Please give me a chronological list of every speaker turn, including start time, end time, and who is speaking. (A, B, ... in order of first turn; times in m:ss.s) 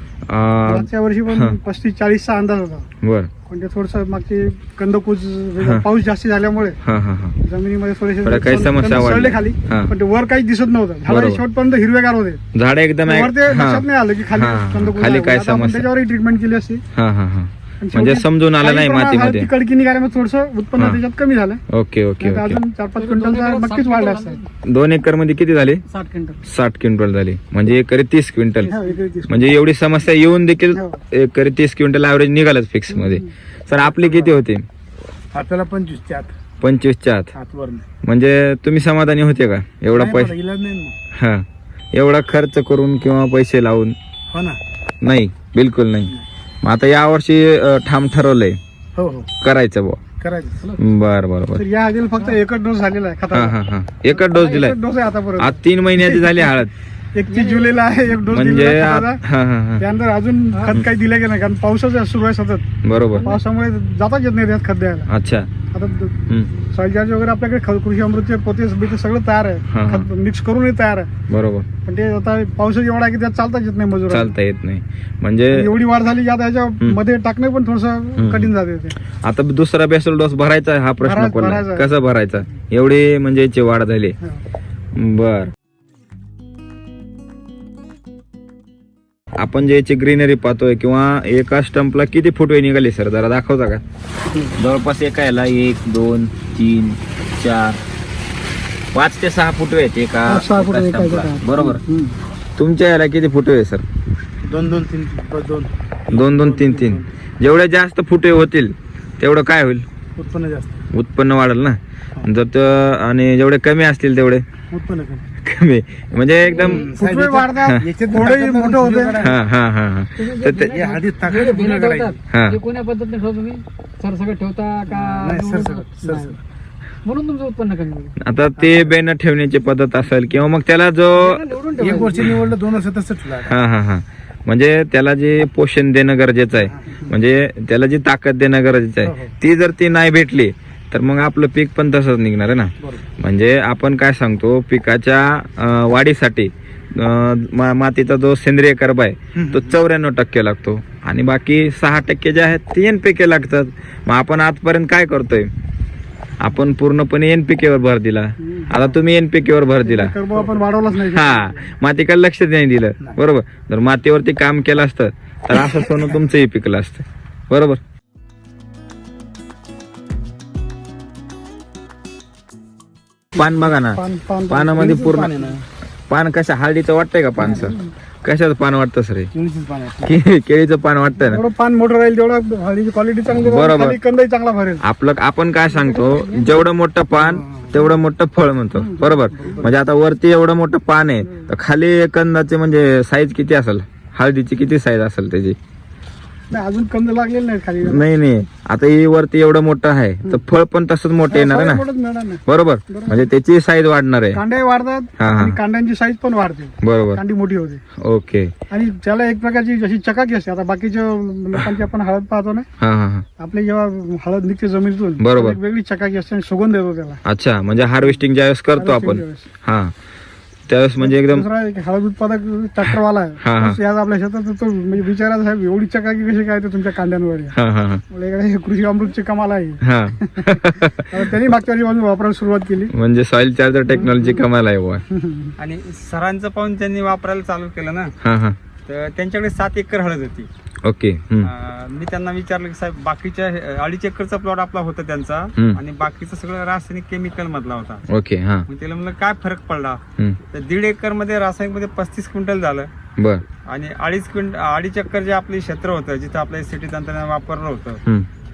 0:00.3-0:01.6 A
0:00.7-0:02.9 B
0:03.0-0:03.3 A
0:03.5-0:06.8 B
0:06.8-0:07.4 A
0:07.4-0:12.4 B
0:08.2-0:09.9 A
0:11.1-0:11.4 A
0:12.5-0:15.9 A
0:13.0-0:16.8 B
0:16.9-0:19.5 A
0:17.8-0:21.6 B
0:21.7-0:22.6 A
0:22.2-0:24.4 B
0:23.0-0:24.5 C
0:24.6-0:25.8 A
0:25.9-0:26.4 C
0:26.4-0:28.7 A
0:28.6-0:29.0 C
0:28.6-0:29.6 B
0:29.3-0:34.7 A
0:30.7-0:31.0 B
0:33.8-0:34.4 D
0:35.3-0:36.4 D
0:36.6-0:37.3 A
0:37.3-0:37.9 D
0:38.0-0:40.4 A
0:39.9-0:41.0 D
0:41.1-0:44.0 A
0:44.3-0:44.6 D
0:45.0-0:48.6 A
0:49.0-0:49.3 D
0:49.4-0:50.0 A
0:50.2-0:50.8 D
0:50.8-0:51.6 A
0:51.6-0:53.6 B
0:53.3-0:54.8 A
0:54.1-0:56.5 B
0:55.4-0:56.7 A
0:57.1-0:59.2 B
0:57.3-0:57.8 C
0:58.2-0:59.8 A
0:59.8-1:02.7 B
1:00.5-1:00.8 C
1:02.8-1:03.3 A
1:03.2-1:03.4 C
1:03.2-1:05.1 B
1:05.1-1:05.5 A
1:05.7-1:11.1 B
1:09.7-1:10.1 A
1:11.3-1:11.7 A
1:11.8-1:14.3 B
1:14.1-1:15.7 A
1:15.5-1:19.0 B
1:18.2-1:18.5 A
1:19.2-1:24.2 A
1:21.0-1:21.9 B
1:24.9-1:25.5 A
1:29.4-1:33.8 A
1:34.6-1:37.8 A
1:38.9-1:41.8 A
1:40.2-1:42.2 B
1:42.6-1:43.8 A
1:44.4-1:47.1 D
1:46.1-1:49.9 A
1:50.2-1:50.9 D
1:50.9-1:54.4 A
1:54.7-1:55.3 D
1:55.4-1:56.9 A
1:56.5-1:56.9 C
1:56.6-1:59.4 D
1:56.9-1:59.2 B
1:59.2-2:00.8 A
2:00.2-2:06.4 C
2:00.6-2:02.2 D
2:02.3-2:02.6 A
2:04.9-2:06.4 D
2:07.0-2:08.2 C
2:08.2-2:11.4 A
2:08.6-2:08.9 D
2:11.1-2:12.4 C
2:11.8-2:13.6 D
2:13.4-2:35.5 A
2:16.7-2:17.0 D
2:19.0-2:19.3 D
2:22.8-2:23.1 D
2:29.4-2:29.7 D
2:36.4-2:40.2 A
2:38.4-2:38.7 B
2:39.8-2:41.7 B
2:40.9-2:47.8 A
2:53.4-2:55.5 A
2:53.4-2:55.2 B
2:54.7-2:55.6 D
2:56.1-2:59.3 A
2:57.4-2:57.8 B
2:57.4-2:57.7 D
2:59.3-3:00.2 D
3:00.0-3:01.4 A
3:01.2-3:04.8 B
3:03.3-3:04.0 A
3:04.8-3:15.6 A
3:05.8-3:06.5 C
3:07.1-3:07.9 D
3:08.8-3:09.2 B
3:09.3-3:09.8 D
3:16.5-3:18.1 B
3:17.8-3:21.8 A
3:21.3-3:23.2 B
3:22.4-3:24.4 A
3:24.3-3:27.8 B
3:25.2-3:25.6 A
3:26.8-3:27.2 A
3:28.0-3:28.5 A
3:28.7-3:32.7 B
3:32.8-3:33.3 A
3:33.4-3:37.2 B
3:35.2-3:35.6 A
3:37.2-3:39.9 A
3:38.8-3:39.5 B
3:40.7-3:41.5 A
3:41.0-3:47.6 B
3:43.4-3:43.8 A
3:47.6-3:48.0 A
3:48.1-3:52.9 B
3:49.8-3:51.4 A
3:52.9-3:55.0 A
3:54.0-3:54.3 B
3:55.1-3:55.5 B
3:55.6-3:58.1 E
3:58.2-3:58.6 A
3:58.9-4:00.5 E
4:00.8-4:01.5 A
4:01.4-4:08.0 E
4:08.1-4:08.7 A
4:08.7-4:10.0 E
4:10.5-4:12.9 E
4:13.2-4:13.4 A
4:13.7-4:18.0 E